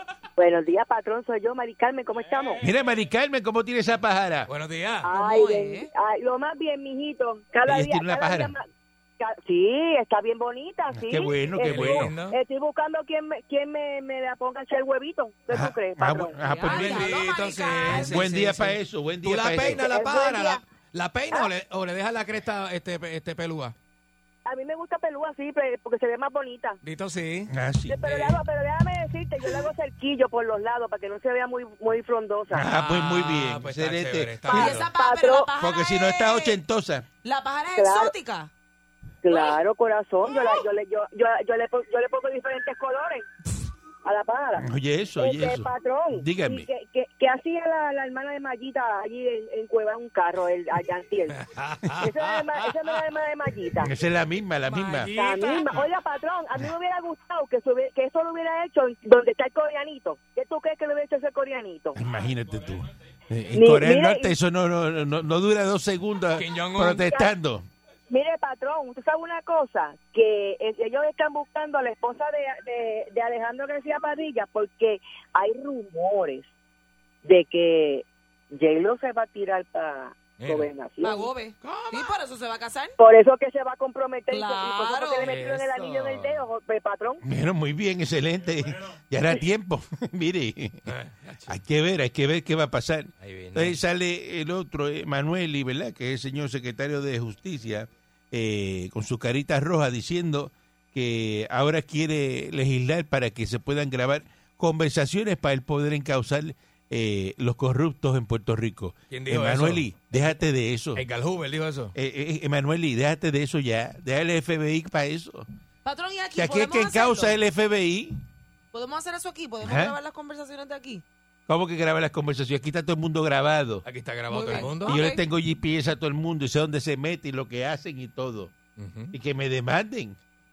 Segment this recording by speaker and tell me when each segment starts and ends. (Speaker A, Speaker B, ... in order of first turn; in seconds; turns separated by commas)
Speaker A: 0.4-2.6, Speaker B: 2.6-4.5, Speaker C: 4.5-5.1, Speaker A: 5.0-8.7, Speaker D: 5.0-5.9, Speaker B: 7.7-8.5, Speaker A: 9.2-17.0, Speaker B: 10.9-12.1, Speaker C: 11.6-12.4, Speaker B: 15.5-17.1, Speaker D: 16.6-18.2, Speaker C: 16.7-23.7, Speaker B: 17.9-19.8, Speaker A: 19.6-20.6, Speaker A: 24.4-26.8, Speaker C: 26.8-27.5, Speaker B: 27.5-28.0, Speaker A: 27.9-32.7, Speaker C: 28.0-28.4, Speaker B: 32.5-34.6, Speaker C: 32.7-34.9, Speaker A: 34.5-35.5, Speaker D: 34.5-36.6, Speaker B: 35.6-37.0, Speaker D: 37.2-38.5, Speaker A: 37.8-38.1, Speaker A: 39.2-43.2, Speaker D: 39.3-39.6, Speaker D: 40.3-40.5, Speaker A: 44.0-51.4, Speaker B: 44.6-46.6, Speaker C: 51.3-53.0, Speaker A: 52.0-53.9, Speaker B: 53.8-55.1, Speaker C: 54.6-55.9, Speaker A: 55.0-62.0, Speaker B: 61.9-67.7, Speaker A: 63.5-64.3, Speaker C: 66.3-67.0, Speaker A: 67.0-67.3, Speaker A: 68.1-76.5, Speaker A: 77.2-81.3, Speaker C: 80.4-80.7, Speaker D: 81.0-83.0, Speaker C: 81.6-82.1, Speaker A: 83.0-87.2, Speaker D: 84.3-85.3, Speaker C: 85.2-86.5, Speaker B: 87.2-90.9, Speaker C: 90.8-91.6, Speaker B: 91.5-111.0, Speaker C: 93.2-93.8, Speaker C: 109.1-110.3, Speaker C: 110.9-111.9, Speaker B: 111.9-115.5, Speaker D: 115.8-117.3, Speaker B: 116.3-118.2, Speaker D: 118.7-121.0, Speaker B: 119.6-119.9, Speaker B: 121.5-123.8, Speaker C: 123.8-125.0, Speaker D: 124.3-125.2, Speaker B: 124.5-128.5, Speaker C: 128.8-129.2, Speaker B: 129.1-130.2